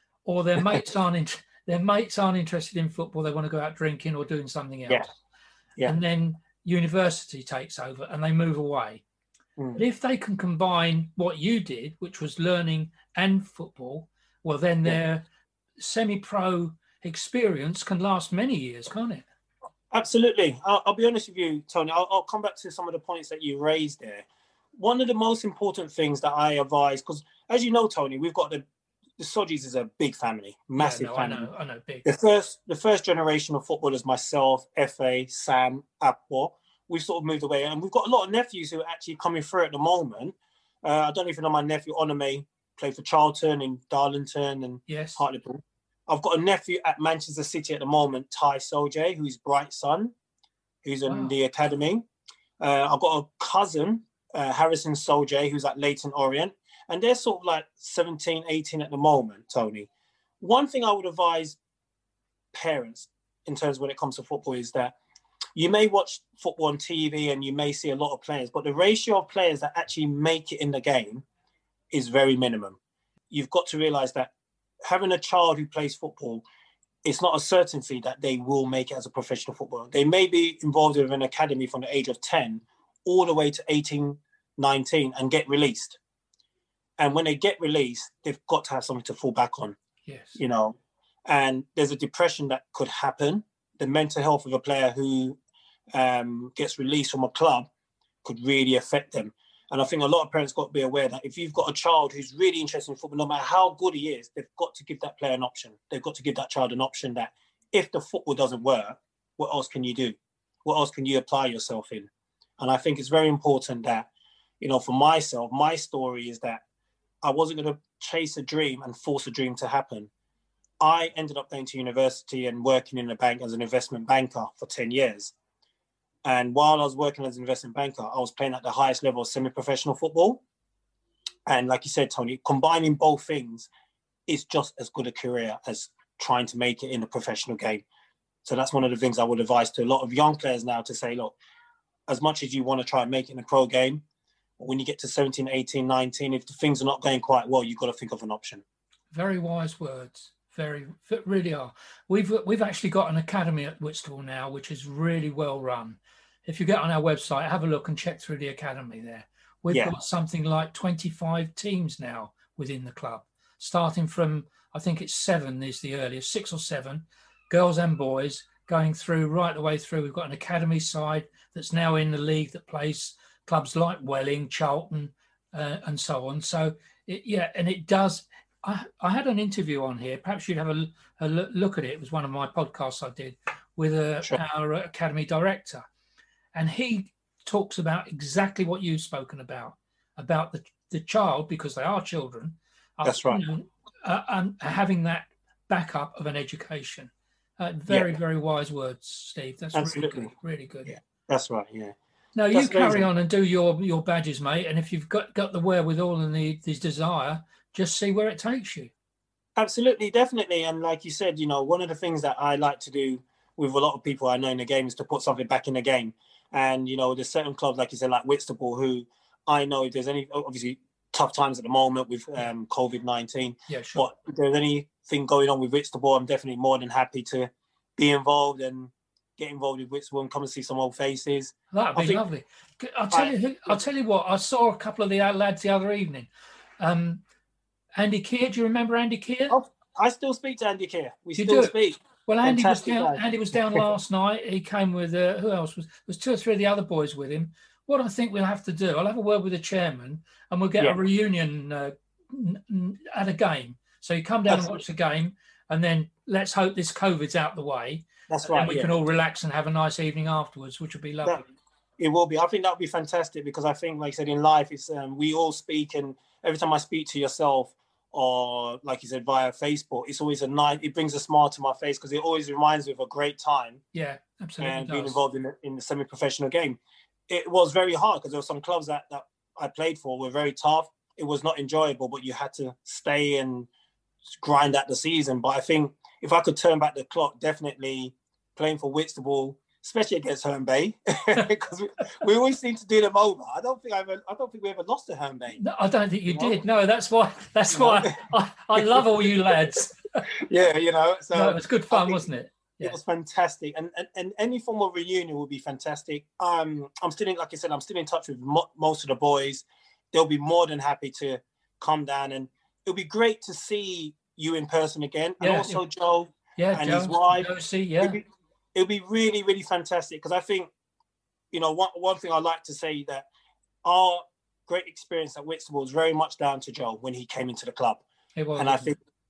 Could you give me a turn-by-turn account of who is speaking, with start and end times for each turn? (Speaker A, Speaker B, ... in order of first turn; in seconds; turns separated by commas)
Speaker A: 0.2-5.1, Speaker A: 5.8-9.0, Speaker B: 9.6-9.8, Speaker A: 9.8-15.3, Speaker A: 15.8-19.2, Speaker B: 19.9-28.6, Speaker B: 29.2-31.5, Speaker A: 30.8-32.1, Speaker B: 32.0-50.1, Speaker A: 44.9-45.2, Speaker B: 50.8-52.1, Speaker A: 51.1-51.4, Speaker B: 52.6-59.9, Speaker B: 60.4-61.6, Speaker B: 62.5-65.0, Speaker B: 65.6-71.2, Speaker B: 71.9-72.8, Speaker B: 73.3-74.3, Speaker B: 74.8-76.5, Speaker B: 77.0-86.0, Speaker B: 87.0-89.8, Speaker A: 90.0-90.4, Speaker B: 90.4-95.4, Speaker B: 95.9-97.7, Speaker B: 98.2-114.1, Speaker B: 114.6-116.6, Speaker B: 117.2-120.1, Speaker B: 120.8-125.3, Speaker B: 126.2-130.4, Speaker B: 131.5-133.7, Speaker B: 134.3-137.8, Speaker B: 138.4-141.4, Speaker B: 142.1-144.0, Speaker B: 144.6-148.6, Speaker A: 149.1-185.8, Speaker A: 186.5-200.9, Speaker B: 193.1-193.4, Speaker B: 197.9-198.2, Speaker B: 199.7-200.3, Speaker B: 200.9-201.9, Speaker A: 202.3-208.9, Speaker B: 202.5-203.1, Speaker B: 209.6-232.2, Speaker A: 223.7-224.1, Speaker A: 231.7-236.3, Speaker B: 233.1-233.8, Speaker A: 236.8-237.2, Speaker A: 238.0-239.6, Speaker B: 239.5-243.8, Speaker A: 241.4-261.4, Speaker B: 254.5-254.8, Speaker B: 258.3-259.0, Speaker B: 262.0-273.8, Speaker A: 273.9-275.2, Speaker B: 274.6-276.8, Speaker B: 277.3-283.7, Speaker B: 284.4-295.6, Speaker A: 295.6-300.3, Speaker B: 296.3-296.6, Speaker B: 297.7-298.1, Speaker B: 300.3-302.3, Speaker A: 301.3-303.0, Speaker B: 302.8-317.5, Speaker A: 315.4-315.8, Speaker A: 316.6-318.2, Speaker B: 318.0-320.7, Speaker B: 321.5-323.3, Speaker B: 323.8-328.1, Speaker A: 328.4-328.9, Speaker B: 328.6-329.0